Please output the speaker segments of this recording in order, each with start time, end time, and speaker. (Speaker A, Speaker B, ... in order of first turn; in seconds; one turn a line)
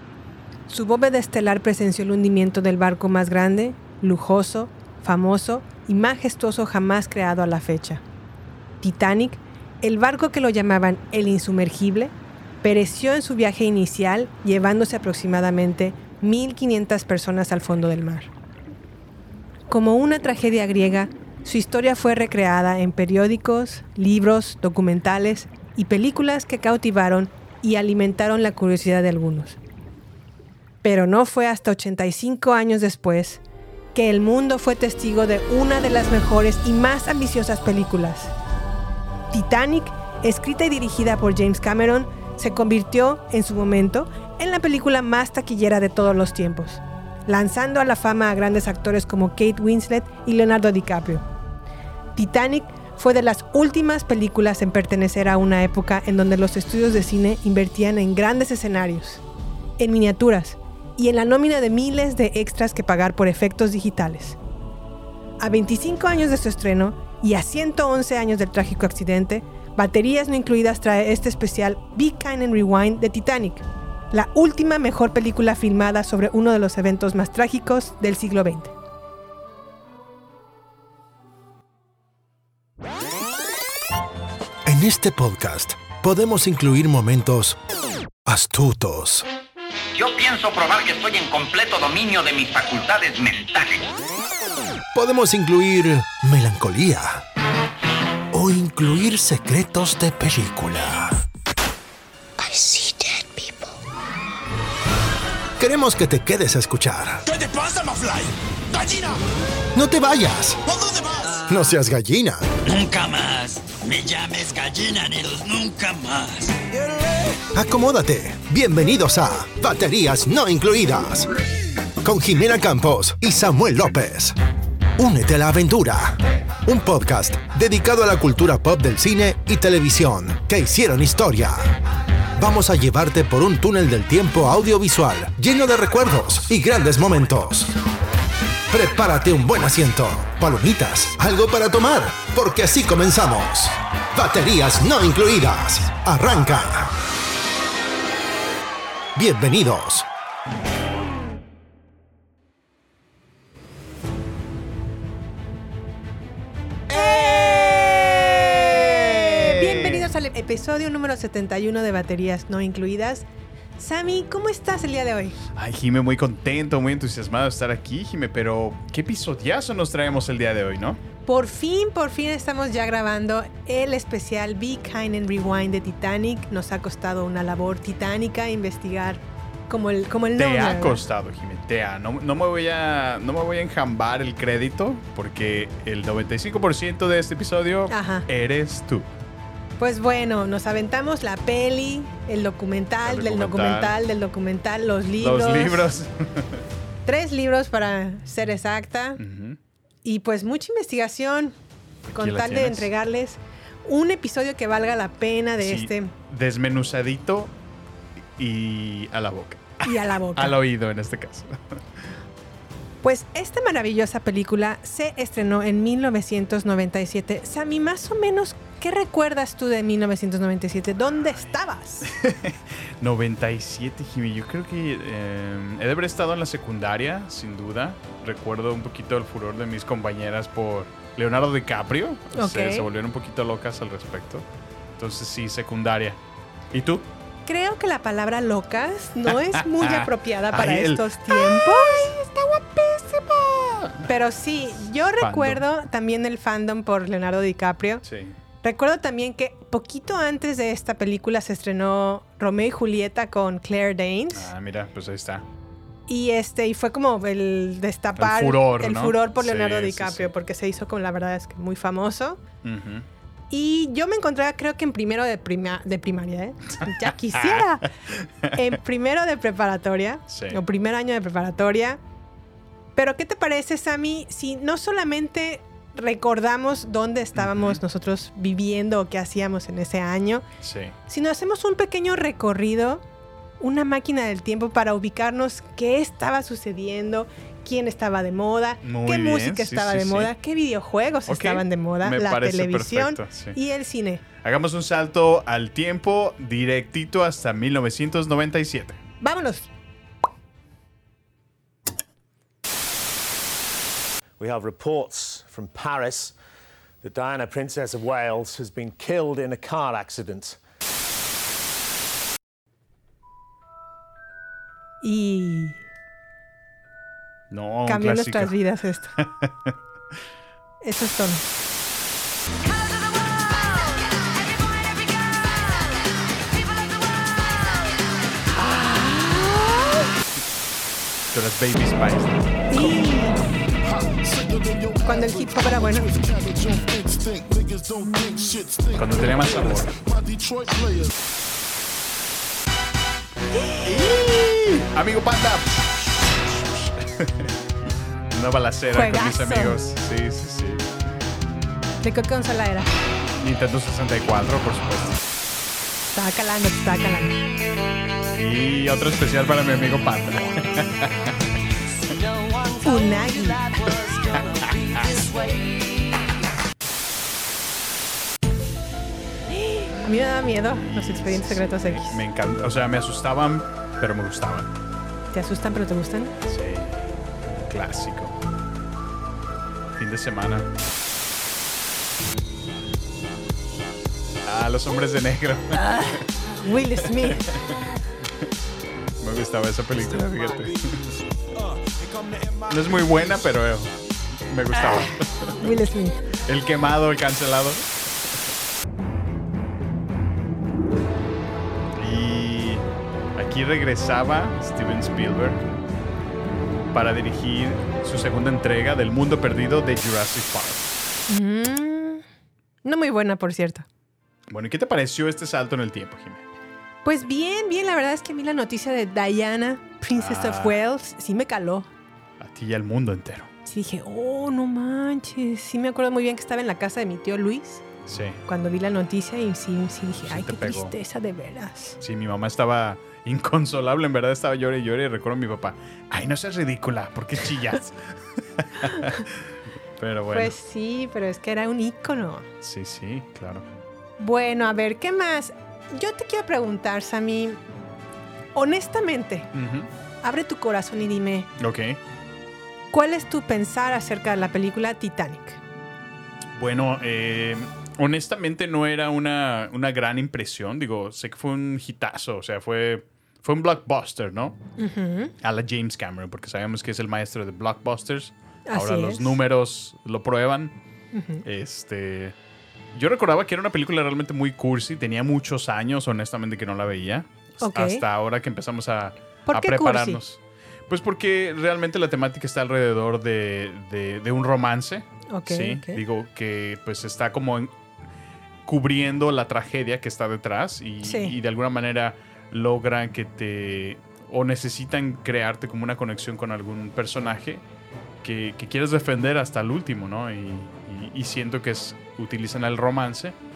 Speaker A: 0.7-8.0
Speaker A: 8.8-18.3
Speaker A: 19.7-29.6
Speaker A: 30.8-33.4
Speaker A: 33.9-38.3
Speaker A: 39.3-51.2
Speaker A: 52.1-59.2
Speaker A: 59.8-64.4
Speaker A: 65.4-78.7
Speaker B: 84.7-87.6
Speaker B: 88.2-89.2
Speaker C: 90.0-93.9
Speaker B: 94.9-97.2
Speaker B: 98.3-101.2
Speaker B: 102.4-103.5
Speaker B: 105.6-107.2
Speaker B: 109.7-110.7
Speaker B: 111.4-112.4
Speaker D: 112.6-116.5
Speaker B: 117.5-121.3
Speaker B: 122.0-124.3
Speaker B: 125.0-131.8
Speaker B: 132.4-137.7
Speaker B: 138.7-146.9
Speaker B: 149.1-150.1
Speaker A: 156.9-163.2
Speaker E: 158.7-160.1
Speaker A: 163.8-165.4
Speaker E: 165.6-171.0
Speaker A: 171.2-181.0
Speaker E: 180.4-189.1
Speaker A: 187.9-188.3
Speaker A: 189.8-195.8
Speaker E: 193.0-193.9
Speaker E: 195.2-196.6
Speaker A: 197.1-199.2
Speaker E: 199.2-199.6
Speaker A: 200.0-201.6
Speaker E: 202.1-202.9
Speaker A: 202.1-206.1
Speaker E: 205.6-207.5
Speaker E: 208.4-211.8
Speaker A: 209.8-210.6
Speaker A: 213.0-222.1
Speaker E: 222.1-234.4
Speaker A: 232.3-232.9
Speaker E: 235.0-236.2
Speaker E: 236.7-237.1
Speaker A: 237.4-248.0
Speaker E: 239.6-242.1
Speaker E: 245.2-245.6
Speaker E: 248.0-248.4
Speaker A: 248.6-254.5
Speaker E: 254.3-255.4
Speaker A: 256.1-262.4
Speaker E: 258.2-260.3
Speaker E: 262.6-263.1
Speaker A: 263.5-267.9
Speaker E: 267.3-267.6
Speaker A: 268.5-272.0
Speaker E: 270.3-270.6
Speaker A: 272.9-280.4
Speaker E: 277.3-277.8
Speaker E: 280.6-280.9
Speaker A: 281.1-283.0
Speaker A: 283.6-294.2
Speaker E: 288.8-290.3
Speaker E: 291.3-293.6
Speaker E: 294.4-299.0
Speaker A: 299.2-299.7
Speaker F: 304.4-306.4
Speaker F: 307.0-310.6
Speaker A: 315.0-315.8
Speaker E: 317.5-318.5
Speaker A: 317.9-319.1
Speaker E: 319.2-319.7
Speaker A: 320.8-321.4
Speaker A: 328.6-329.8
Speaker E: 331.3-332.4
Speaker A: 332.7-333.4
Speaker A: 334.9-336.2
Speaker E: 336.6-337.1
Speaker E: 338.8-340.0
Speaker E: 343.8-345.8
Speaker E: 347.0-347.5
Speaker E: 348.3-350.9
Speaker A: 348.9-349.8
Speaker A: 352.0-352.9
Speaker E: 353.4-355.2
Speaker A: 356.1-357.4
Speaker E: 358.3-361.3
Speaker A: 362.8-364.0
Speaker A: 369.8-372.2
Speaker E: 370.7-374.7
Speaker A: 375.3-376.3
Speaker E: 376.5-378.3
Speaker E: 380.0-380.7
Speaker E: 384.4-385.9
Speaker A: 385.7-387.4
Speaker E: 387.3-387.7
Speaker E: 389.2-391.0
Speaker E: 392.6-393.9
Speaker E: 394.5-395.5
Speaker A: 394.7-396.2
Speaker E: 396.4-397.9
Speaker E: 402.0-402.8
Speaker E: 403.4-405.7
Speaker E: 406.9-410.9
Speaker A: 411.3-412.2
Speaker A: 412.8-413.9
Speaker E: 414.5-416.4
Speaker A: 417.0-421.9
Speaker E: 420.1-420.7
Speaker E: 422.4-423.5
Speaker A: 423.6-427.9
Speaker E: 428.1-428.4
Speaker A: 428.4-432.0
Speaker E: 430.2-430.9
Speaker E: 432.0-440.5
Speaker A: 438.8-439.2
Speaker A: 440.3-442.4
Speaker E: 442.6-443.6
Speaker A: 444.2-447.6
Speaker A: 448.5-449.5
Speaker E: 449.5-449.9
Speaker A: 450.2-451.5
Speaker E: 451.6-452.0
Speaker A: 452.9-455.6
Speaker E: 456.5-464.6
Speaker A: 464.8-465.3
Speaker E: 465.4-470.7
Speaker A: 468.7-469.3
Speaker A: 471.1-471.4
Speaker E: 471.4-472.3
Speaker E: 472.9-487.7
Speaker A: 477.6-478.0
Speaker A: 479.5-480.2
Speaker A: 485.3-486.0
Speaker E: 488.6-497.6
Speaker A: 491.0-491.3
Speaker E: 498.2-503.4